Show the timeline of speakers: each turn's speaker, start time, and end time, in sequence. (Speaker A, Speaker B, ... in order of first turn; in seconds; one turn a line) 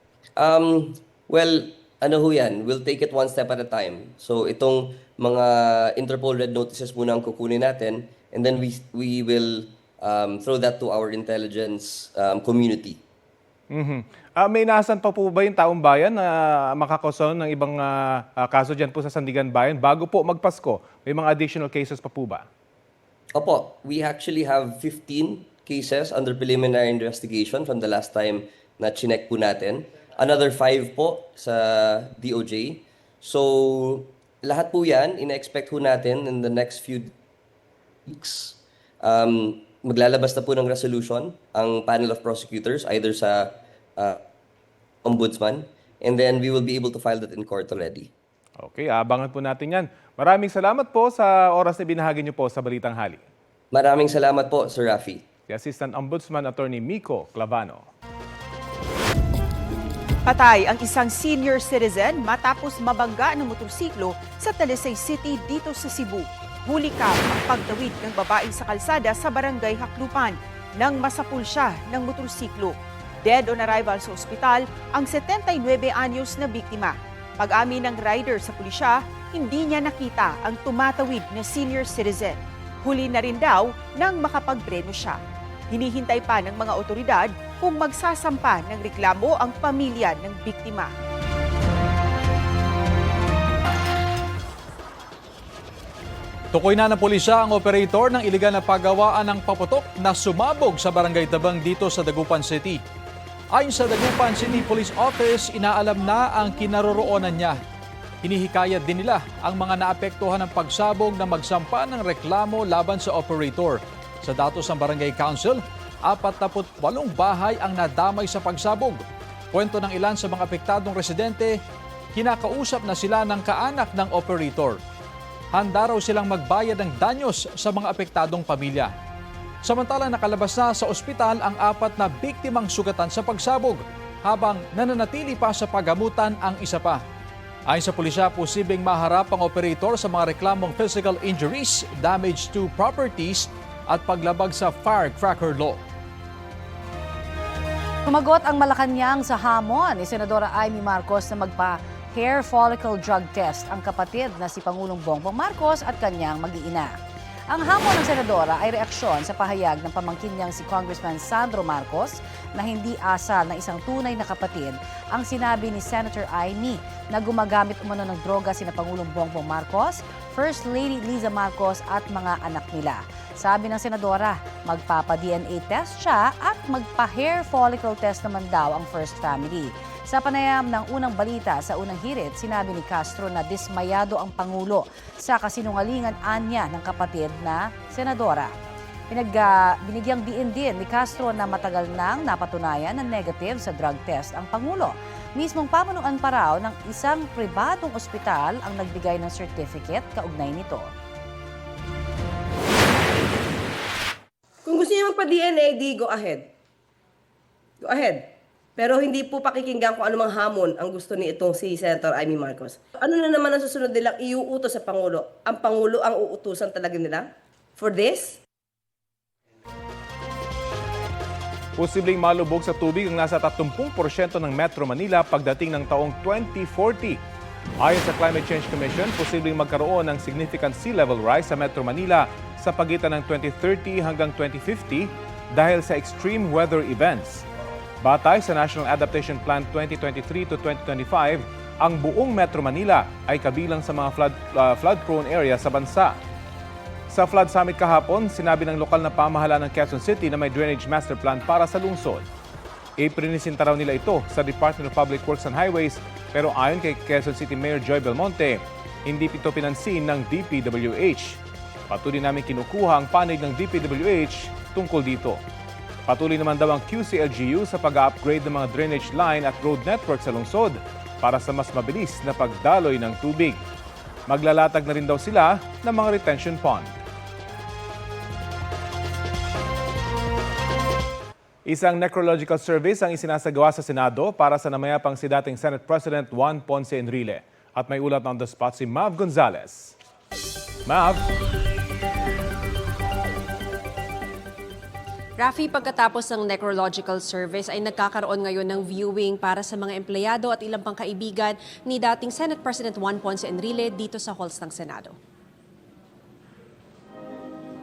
Speaker A: 0.4-13.0
Speaker B: 13.7-22.4
Speaker A: 23.4-37.1
Speaker A: 38.1-44.2
Speaker A: 45.0-48.1
Speaker B: 48.6-53.2
Speaker A: 53.7-55.3
Speaker B: 55.5-57.9
Speaker C: 60.3-85.2
Speaker C: 85.7-90.9
Speaker D: 96.5-102.8
Speaker D: 103.5-107.6
Speaker D: 108.2-121.6
Speaker D: 122.1-124.8
Speaker D: 125.5-128.9
Speaker D: 129.6-137.0
Speaker D: 137.7-145.8
Speaker E: 148.1-157.0
Speaker E: 157.5-188.5
Speaker E: 189.1-200.9
Speaker F: 204.7-206.4
Speaker F: 207.8-208.2
Speaker F: 208.8-217.2
Speaker F: 217.8-218.4
Speaker B: 221.8-227.2
Speaker B: 227.8-237.4
Speaker B: 238.0-246.2
Speaker B: 247.1-252.3
Speaker B: 253.0-265.4
Speaker B: 266.1-273.6
Speaker B: 274.3-276.9
Speaker B: 281.7-289.9
Speaker B: 290.9-291.2
Speaker G: 295.4-305.1